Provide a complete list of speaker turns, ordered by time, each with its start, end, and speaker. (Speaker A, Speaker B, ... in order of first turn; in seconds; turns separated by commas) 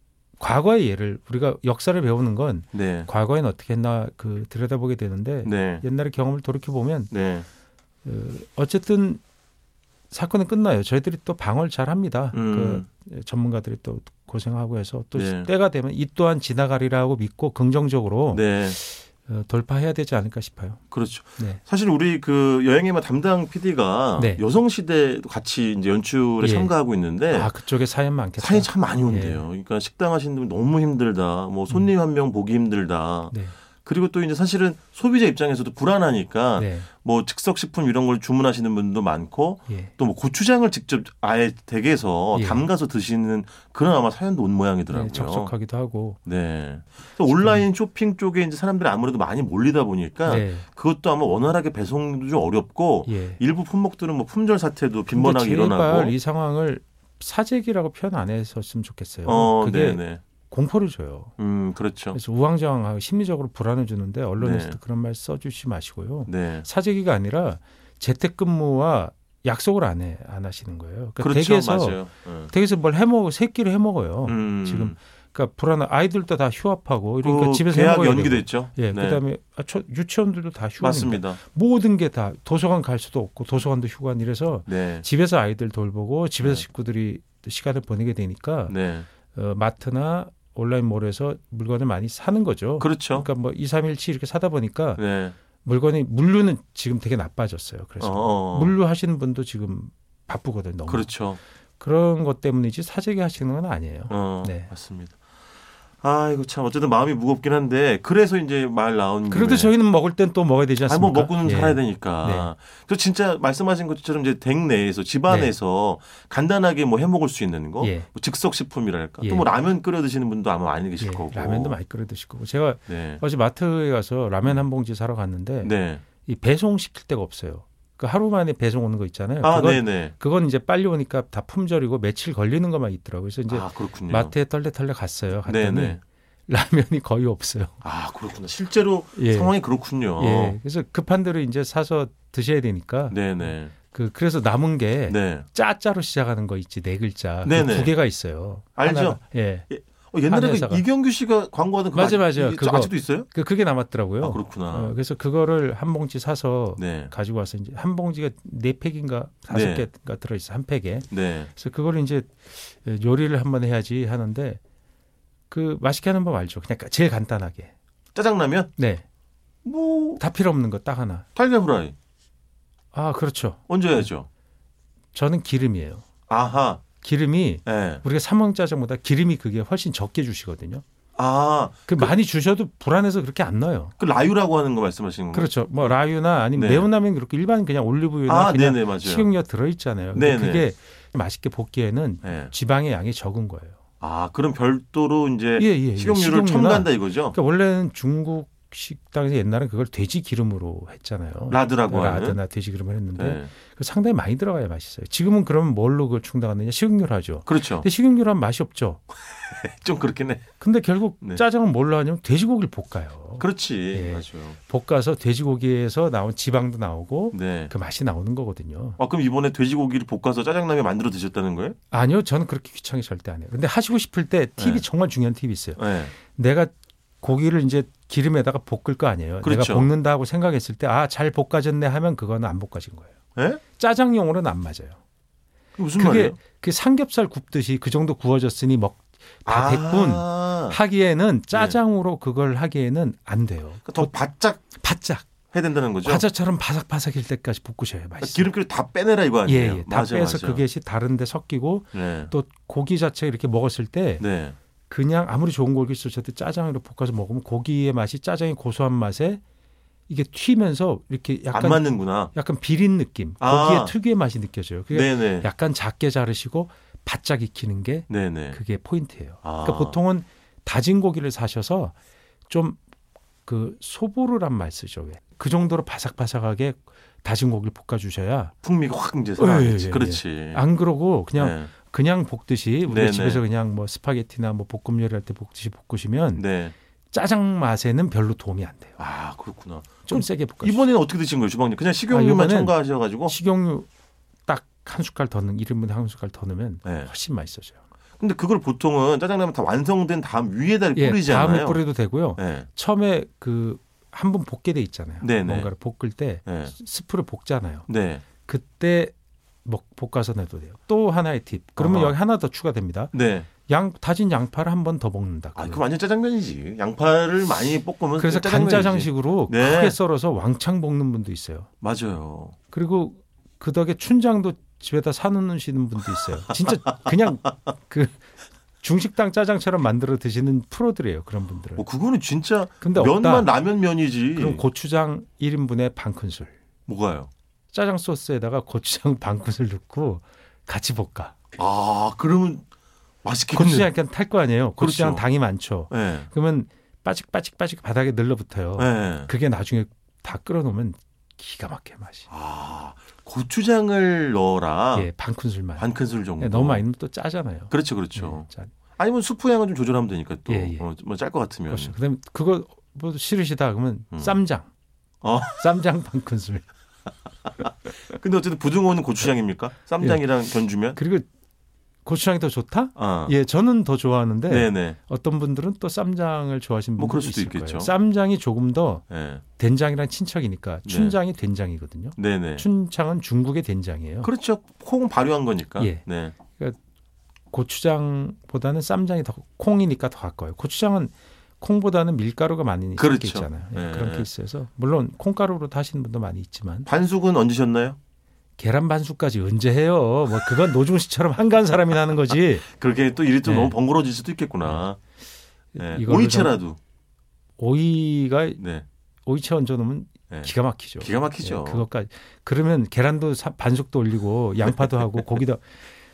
Speaker A: 0.4-7.1, Speaker B: 2.7-3.1, Speaker B: 5.4-5.8, Speaker B: 7.1-7.5, Speaker A: 8.0-9.2, Speaker A: 10.1-20.8, Speaker B: 12.3-12.8, Speaker B: 15.1-15.5, Speaker B: 18.3-18.8, Speaker B: 20.9-27.5, Speaker A: 21.4-21.6, Speaker A: 24.2-24.4, Speaker A: 26.4-26.7, Speaker A: 27.3-29.4, Speaker B: 28.4-45.5, Speaker A: 36.6-36.9, Speaker A: 39.7-39.9, Speaker A: 42.3-42.7, Speaker A: 44.9-46.2, Speaker B: 46.2-56.1, Speaker A: 47.3-47.7, Speaker A: 50.2-50.6, Speaker A: 53.0-53.4, Speaker A: 55.1-61.3, Speaker B: 59.2-60.2, Speaker B: 61.4-62.2, Speaker A: 62.1-88.8, Speaker B: 64.4-64.8, Speaker B: 66.3-66.7, Speaker B: 71.2-72.5, Speaker B: 74.2-75.0, Speaker B: 77.2-79.2, Speaker B: 80.8-81.4, Speaker B: 84.7-85.0, Speaker B: 88.7-89.1, Speaker A: 89.3-95.0, Speaker B: 92.8-93.3, Speaker B: 95.0-95.3, Speaker A: 95.6-101.1, Speaker B: 98.0-98.8, Speaker B: 100.9-101.4, Speaker A: 101.8-104.7, Speaker B: 104.1-105.2, Speaker B: 106.0-109.7, Speaker A: 109.3-112.5, Speaker B: 110.8-121.8, Speaker A: 115.3-115.5, Speaker A: 117.8-118.1, Speaker A: 119.2-119.5, Speaker A: 121.0-137.8, Speaker B: 122.9-123.2, Speaker B: 125.6-126.0, Speaker B: 129.4-130.1, Speaker B: 133.5-134.3, Speaker B: 135.4-136.0, Speaker B: 137.8-140.6, Speaker A: 139.2-139.5, Speaker A: 140.2-149.7, Speaker B: 143.1-143.7, Speaker B: 145.1-145.5, Speaker B: 147.4-147.9, Speaker B: 148.8-153.3, Speaker A: 150.2-150.8, Speaker A: 151.9-164.6, Speaker B: 154.2-154.9, Speaker B: 156.8-157.1, Speaker B: 159.5-159.9, Speaker B: 161.1-161.5, Speaker A: 165.5-167.7, Speaker B: 168.1-168.7, Speaker A: 168.8-169.0, Speaker B: 169.6-170.2, Speaker A: 170.2-171.3, Speaker B: 171.3-171.9, Speaker A: 172.9-174.1, Speaker B: 173.7-174.3, Speaker A: 175.1-176.0, Speaker B: 176.3-176.8, Speaker A: 177.0-180.8, Speaker B: 177.7-178.0, Speaker B: 181.2-182.1, Speaker A: 181.9-183.9, Speaker B: 184.0-186.0, Speaker A: 185.3-193.8, Speaker B: 186.5-186.9, Speaker B: 188.3-189.3, Speaker B: 190.1-190.7, Speaker B: 192.2-192.5, Speaker B: 194.0-197.4, Speaker A: 195.6-209.0, Speaker B: 201.5-202.4, Speaker B: 203.1-203.5, Speaker B: 207.5-207.9, Speaker B: 209.3-210.4, Speaker A: 210.6-219.0, Speaker B: 213.4-214.6, Speaker B: 217.3-217.7, Speaker B: 219.0-221.8, Speaker A: 221.9-235.0, Speaker B: 224.6-224.8, Speaker B: 225.8-226.1, Speaker B: 229.4-229.9, Speaker B: 233.3-233.6, Speaker B: 235.8-236.4, Speaker A: 235.9-244.1, Speaker B: 239.4-240.8, Speaker B: 241.5-241.8, Speaker B: 243.8-244.7, Speaker A: 244.7-245.3, Speaker B: 245.5-246.2, Speaker A: 246.0-248.5, Speaker B: 248.2-250.6, Speaker A: 249.4-254.2, Speaker B: 251.9-252.3, Speaker B: 254.2-254.6, Speaker A: 254.9-259.4, Speaker A: 260.1-271.9, Speaker B: 261.5-262.3, Speaker B: 263.4-263.9, Speaker B: 264.9-265.5, Speaker B: 268.1-268.6, Speaker B: 269.4-270.0, Speaker A: 272.5-272.8, Speaker A: 273.4-278.5, Speaker B: 278.6-280.6, Speaker A: 279.4-286.4, Speaker B: 281.3-281.7, Speaker B: 282.9-283.4, Speaker B: 286.4-286.7, Speaker A: 287.1-289.0, Speaker B: 289.0-293.3, Speaker A: 290.1-290.9, Speaker A: 292.1-293.9, Speaker A: 294.5-297.8, Speaker B: 296.8-297.1, Speaker B: 298.2-301.8, Speaker A: 300.9-309.1, Speaker B: 302.4-302.7, Speaker B: 305.2-305.7, Speaker B: 306.4-306.7, Speaker B: 307.9-308.2, Speaker A: 309.6-313.1, Speaker B: 311.8-312.2, Speaker B: 313.1-313.5, Speaker A: 313.7-315.8, Speaker B: 315.6-320.0, Speaker A: 318.1-321.7, Speaker B: 321.8-322.5, Speaker A: 322.7-328.2, Speaker A: 328.8-331.9, Speaker B: 331.8-334.6, Speaker A: 332.8-333.5, Speaker A: 334.3-336.5, Speaker B: 336.9-337.3, Speaker A: 337.7-341.4, Speaker B: 341.6-342.6, Speaker B: 343.2-343.9, Speaker A: 343.5-352.3, Speaker B: 344.8-345.2, Speaker B: 345.9-346.3, Speaker B: 348.8-349.3, Speaker B: 352.3-355.1, Speaker A: 354.9-358.7, Speaker B: 355.8-356.8, Speaker B: 357.7-361.9, Speaker A: 360.5-360.9, Speaker A: 361.7-364.7, Speaker B: 364.1-364.4, Speaker B: 365.2-365.6, Speaker A: 365.4-366.6, Speaker B: 367.6-371.0, Speaker A: 370.0-370.3, Speaker A: 370.8-371.3, Speaker A: 372.0-379.0, Speaker B: 372.9-373.3, Speaker B: 374.5-375.0, Speaker B: 377.0-377.9, Speaker B: 379.1-379.4, Speaker A: 379.6-384.3, Speaker B: 380.8-381.2, Speaker B: 382.2-382.6, Speaker B: 384.2-386.3, Speaker A: 385.8-386.8, Speaker A: 387.5-396.9, Speaker B: 393.0-394.3, Speaker B: 396.9-398.0, Speaker A: 398.6-402.6, Speaker B: 402.7-405.0, Speaker A: 403.4-403.8, Speaker A: 405.7-406.6, Speaker B: 405.8-406.8, Speaker A: 407.6-408.6, Speaker B: 408.6-408.9, Speaker A: 409.2-415.6, Speaker B: 410.3-411.9